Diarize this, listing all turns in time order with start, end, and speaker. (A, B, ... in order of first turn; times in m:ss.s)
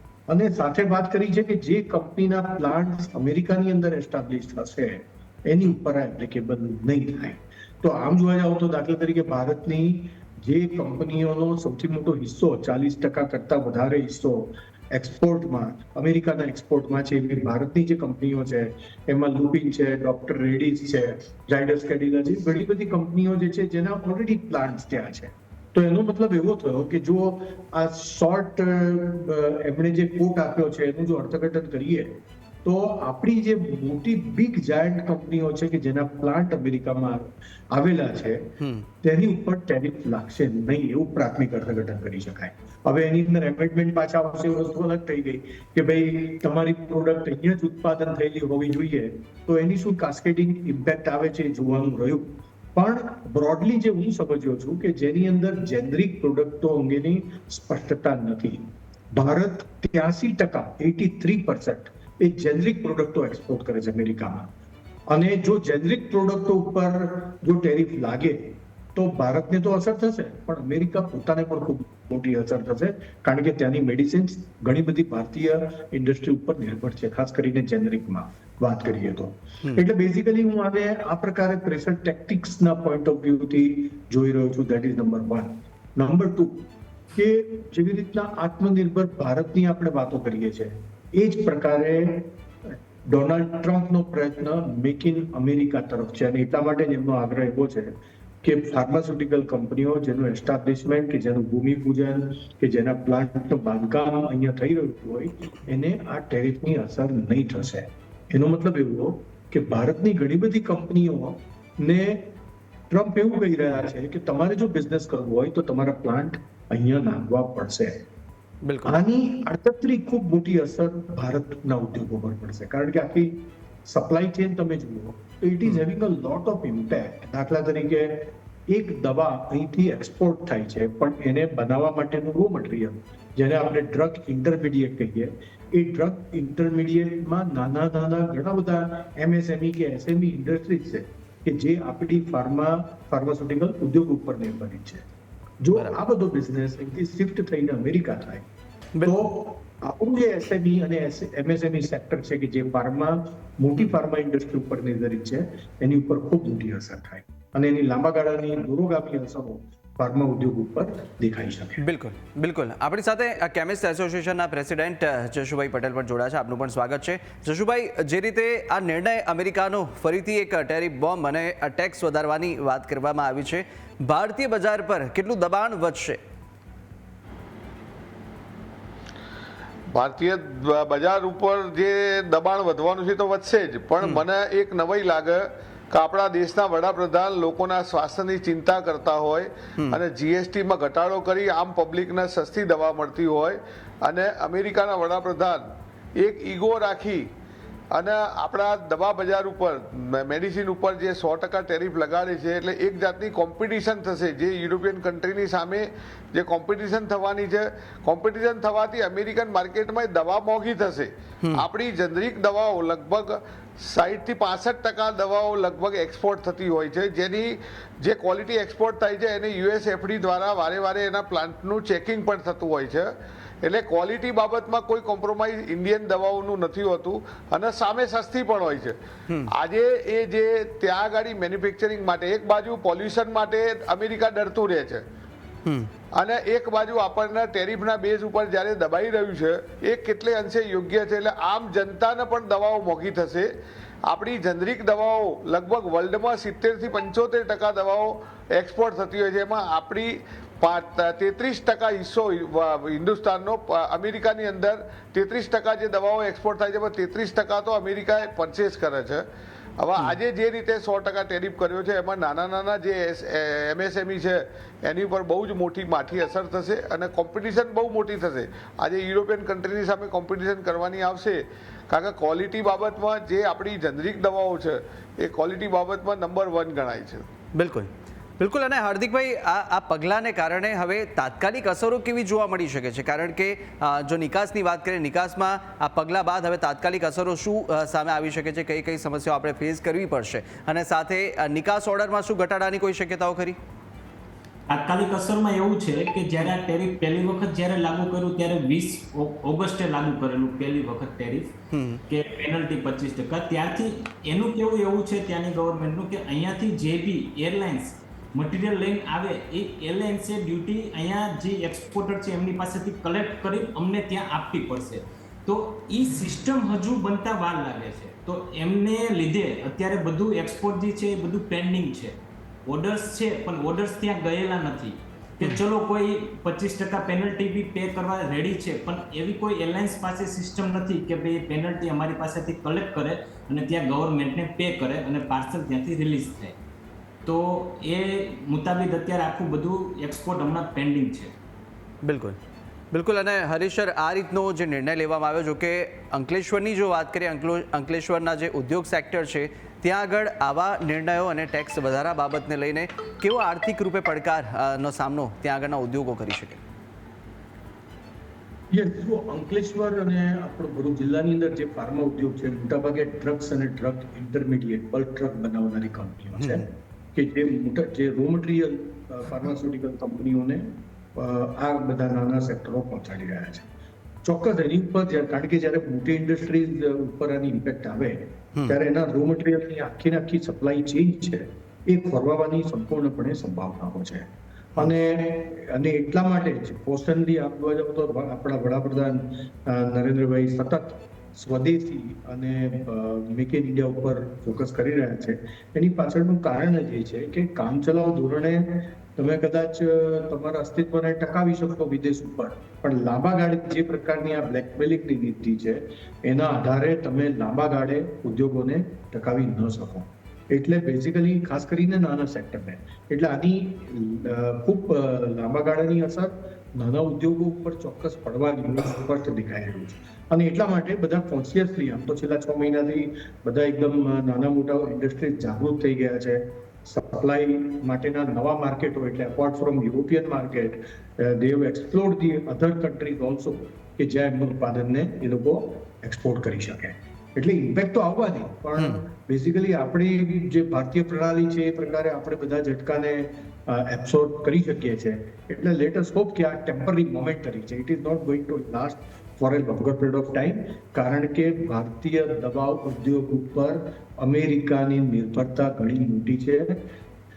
0:00.3-1:04.5 A
0:38.6-0:38.9 B
1:05.1-1:52.4 A
1:52.9-1:58.1 A
1:58.6-1:59.0 B
1:58.8-2:25.1 A
2:25.6-2:28.5 A
2:29.0-2:29.3 B
2:29.0-2:41.8 A
2:41.8-2:56.2 B
2:59.9-3:15.6 C
3:16.2-3:17.3 C
3:17.9-3:43.1 C
3:43.6-3:49.0 C
3:49.5-3:55.0 C
3:55.6-3:55.9 B
3:56.1-4:03.5 C
4:04.1-4:19.2 C
4:19.8-4:37.3 C
4:37.6-4:53.6 B
4:54.7-5:01.5 D
5:01.7-5:02.0 B
5:02.1-5:36.6 D
5:37.2-5:41.3 D
5:42.0-5:42.4 B
5:42.9-5:56.6 B
5:58.7-6:13.7 A
6:06.4-6:06.6 B
6:14.2-7:36.9 A